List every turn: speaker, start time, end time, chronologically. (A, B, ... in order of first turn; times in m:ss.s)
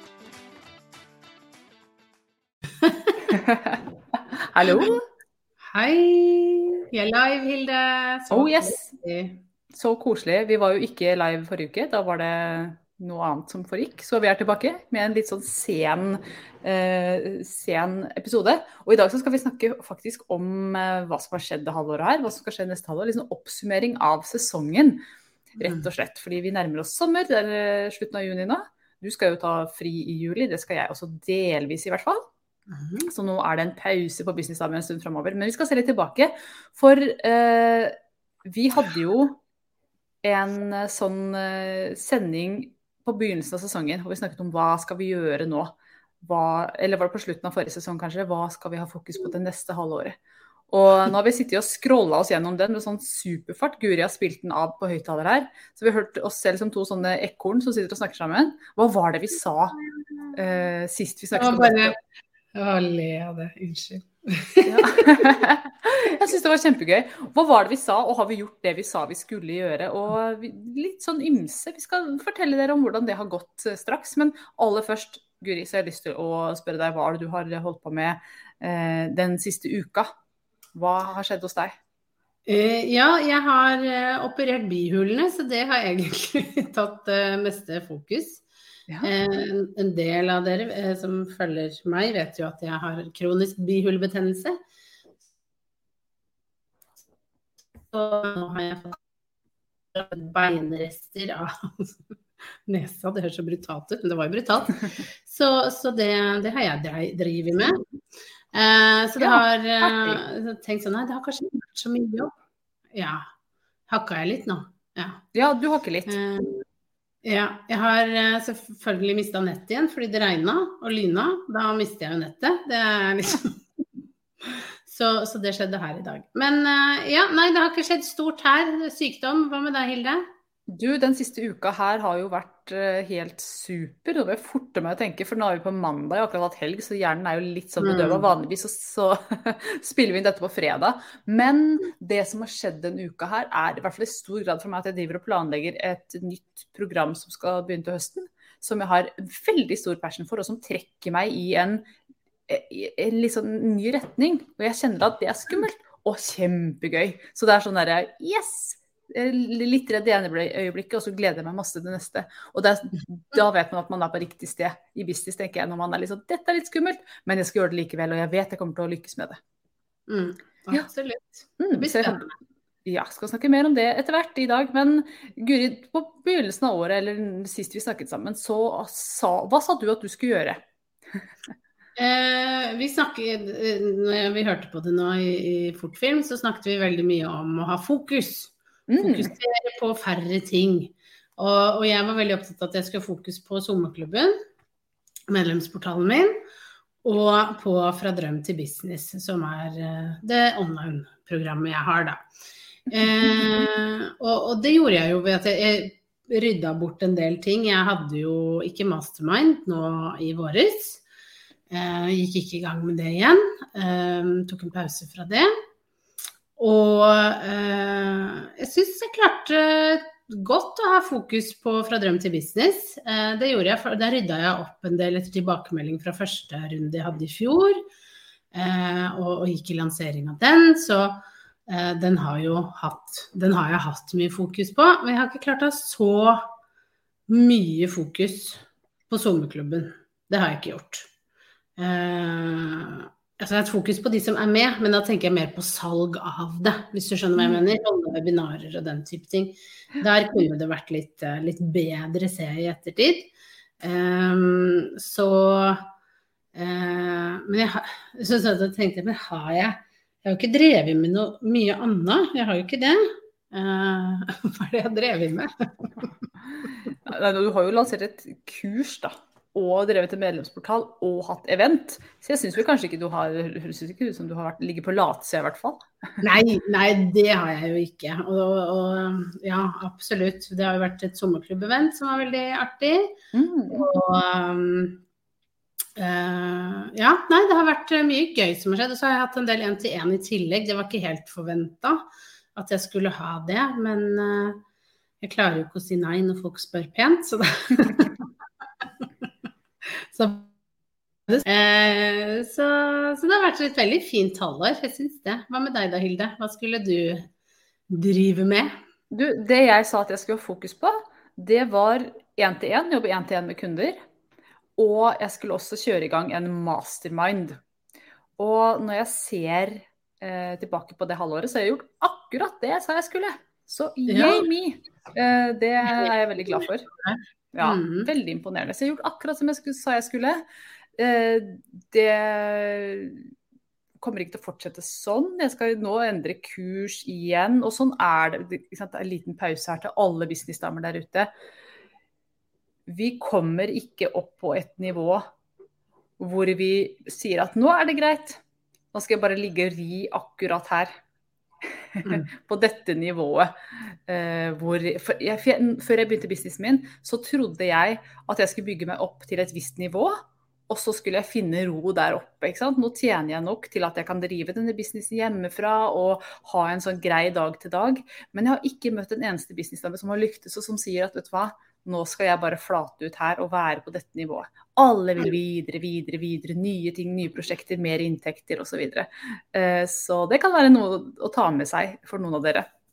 0:02.8-0:03.2 A
0:03.3-0:03.8 B
0:04.4-0:05.0 B
0:04.7-0:04.9 A
0:05.7-0:09.4 A
0:08.3-0:08.9 B
0:09.7-0:25.0 B
0:25.6-0:25.9 A
0:25.6-0:32.2 B
0:32.7-0:33.1 A
0:33.1-0:39.4 B
0:40.2-0:50.2 B
0:50.7-0:59.8 B
1:00.3-1:01.9 B
1:01.3-1:02.0 A
1:02.5-1:05.3 A
1:04.6-1:20.1 B
1:20.7-1:21.8 B
1:22.4-1:28.4 A
1:29.0-1:34.6 A
1:37.9-1:39.0 A
1:39.9-1:41.9 A
1:42.7-1:47.8 A
1:48.5-1:52.3 A
1:49.2-1:50.2 B
1:52.9-1:53.2 A
1:53.9-1:55.2 A
1:55.3-1:56.2 B
1:56.1-1:56.6 A
1:57.2-2:03.6 A
2:04.4-2:10.2 A
2:10.7-2:31.8 B
2:17.8-2:18.3 A
2:32.5-2:49.4 B
2:50.1-2:52.3 A
2:51.6-2:52.2 B
2:52.8-3:00.6 B
3:02.0-3:14.3 A
3:08.9-3:09.3 B
3:15.3-3:16.3 A
3:17.0-3:22.2 A
3:22.9-3:31.0 A
3:31.7-3:35.5 A
3:36.6-3:47.8 A
3:48.5-3:56.4 A
3:57.3-4:01.1 A
4:01.8-4:13.3 A
4:07.4-4:07.6 B
4:13.8-4:15.9 A
4:16.5-4:26.1 A
4:26.6-4:36.2 B
4:36.2-4:43.1 A
4:43.3-4:43.8 B
4:43.7-4:45.0 A
4:46.0-4:54.6 A
4:55.2-4:58.3 A
4:59.9-5:00.5 A
5:01.3-5:07.3 A
5:07.9-5:08.7 A
5:09.1-5:14.0 B
5:14.8-5:17.6 B
5:18.4-5:26.9 B
5:24.1-5:24.4 A
5:27.0-5:28.1 A
5:27.5-5:30.4 B
5:31.0-5:33.3 B
5:34.0-5:41.3 B
5:42.9-5:45.2 B
5:46.2-5:48.4 B
5:48.9-5:50.9 B
5:51.9-6:00.2 B
6:00.7-6:22.7 B